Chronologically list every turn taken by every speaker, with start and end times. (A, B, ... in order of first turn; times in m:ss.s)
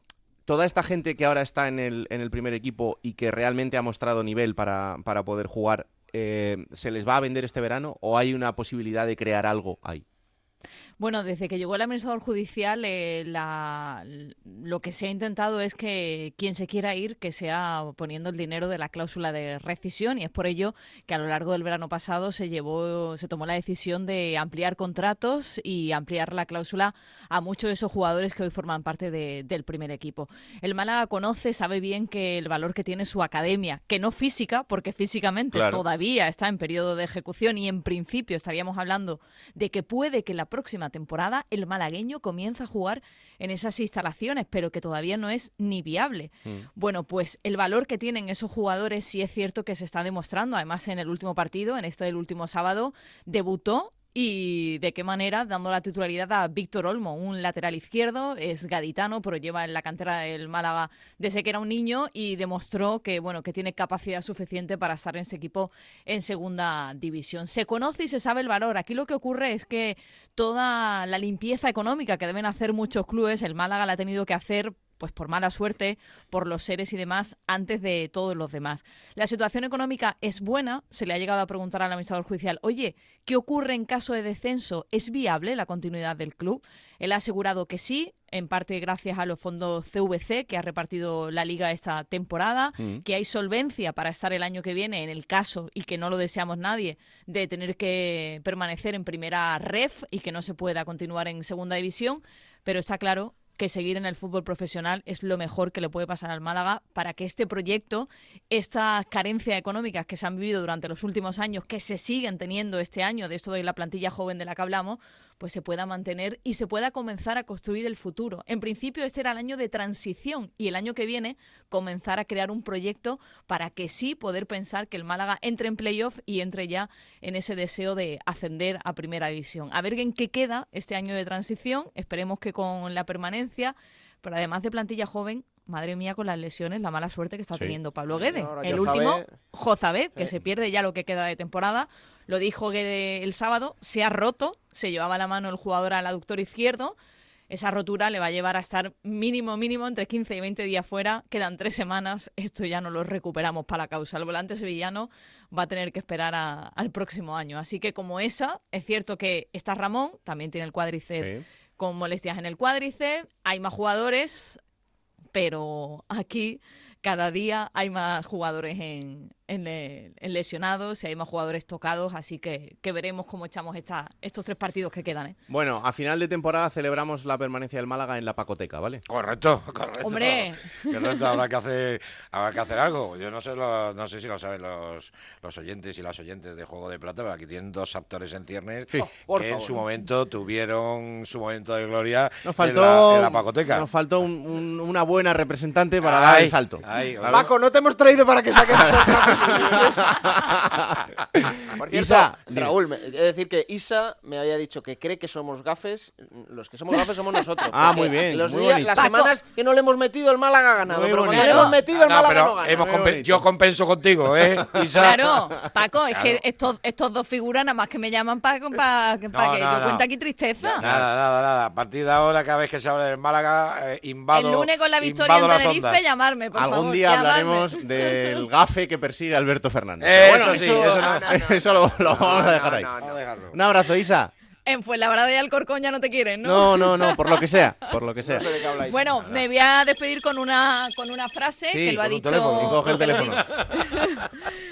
0:00.5-0:10.0 A
0:11.0-2:27.0 B
0:35.5-0:35.8 A
1:32.8-1:33.0 A
2:17.5-2:17.8 A
2:18.1-2:19.4 C
2:27.5-2:44.6 B
2:41.2-2:41.4 A
2:45.3-2:55.4 B
2:55.5-2:59.0 A
2:59.1-3:13.9 D
3:00.0-3:01.4 B
3:09.1-3:09.9 C
3:12.4-3:17.5 A
3:16.0-3:17.5 D
3:17.3-3:20.2 C
3:18.7-3:20.9 A
3:21.8-3:32.9 C
3:21.9-3:22.8 A
3:27.7-3:29.0 A
3:28.9-3:29.3 B
3:30.8-3:31.8 A
3:31.3-3:31.7 B
3:31.9-3:36.4 D
3:32.8-3:33.5 A
3:34.3-3:35.7 A
3:35.0-3:40.8 B
3:39.3-3:40.0 D
3:40.6-3:46.0 D
3:40.8-3:41.1 A
3:44.3-3:48.4 B
3:46.5-3:52.9 A
3:50.0-3:51.3 D
3:50.7-3:53.3 C
3:53.0-3:53.6 D
3:53.5-3:54.3 A
3:54.7-3:58.0 B
3:56.4-3:58.5 A
3:58.2-3:59.0 C
3:58.9-4:04.3 B
4:01.7-4:03.6 A
4:02.2-4:03.7 D